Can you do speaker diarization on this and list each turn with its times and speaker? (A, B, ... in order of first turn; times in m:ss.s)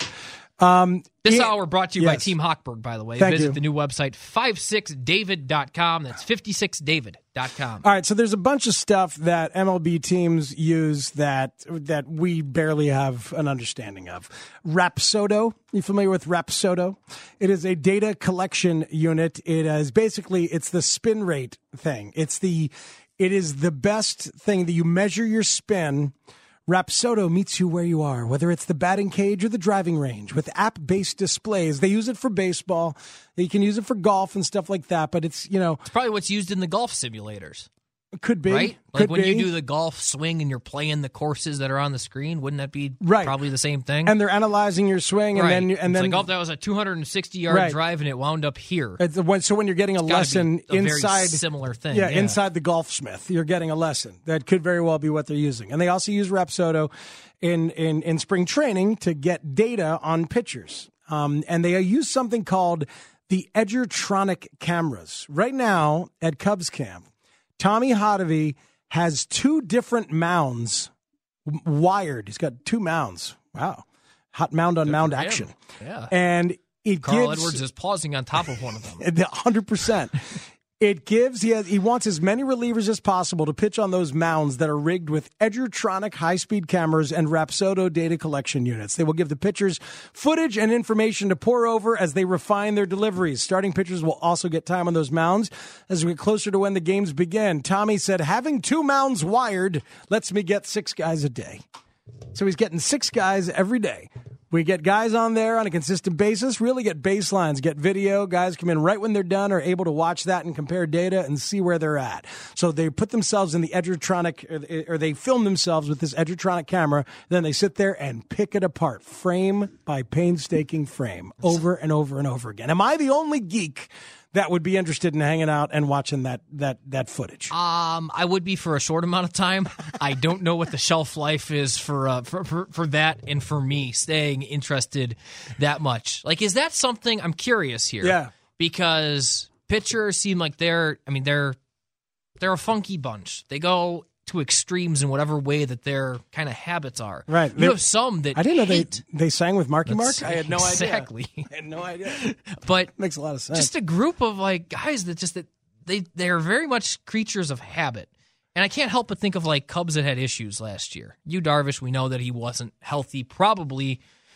0:00.6-0:02.3 A
0:01.2-0:07.8 B
0:03.2-0:03.6 A
0:07.8-0:26.1 A
0:26.7-0:35.8 A
0:35.8-0:37.7 B
0:38.2-0:39.5 A
0:38.5-0:44.1 B
0:43.0-0:43.4 A
0:44.0-0:46.3 A
0:45.3-0:49.0 B
0:47.5-0:47.8 A
0:49.0-0:56.9 A
0:50.0-0:52.4 B
0:57.4-1:07.1 A
1:07.6-1:10.9 A
1:11.4-1:15.5 A
1:14.8-1:16.1 B
1:16.1-1:17.6 A
1:17.0-1:19.0 B
1:19.0-1:41.6 A
1:42.3-2:07.5 A
2:07.5-2:21.6 B
2:18.0-2:18.3 A
2:22.4-2:29.0 B
2:27.3-2:27.8 A
2:28.3-2:32.2 A
2:29.9-2:31.5 B
2:32.1-2:32.9 B
2:33.0-2:33.7 A
2:33.5-2:44.0 B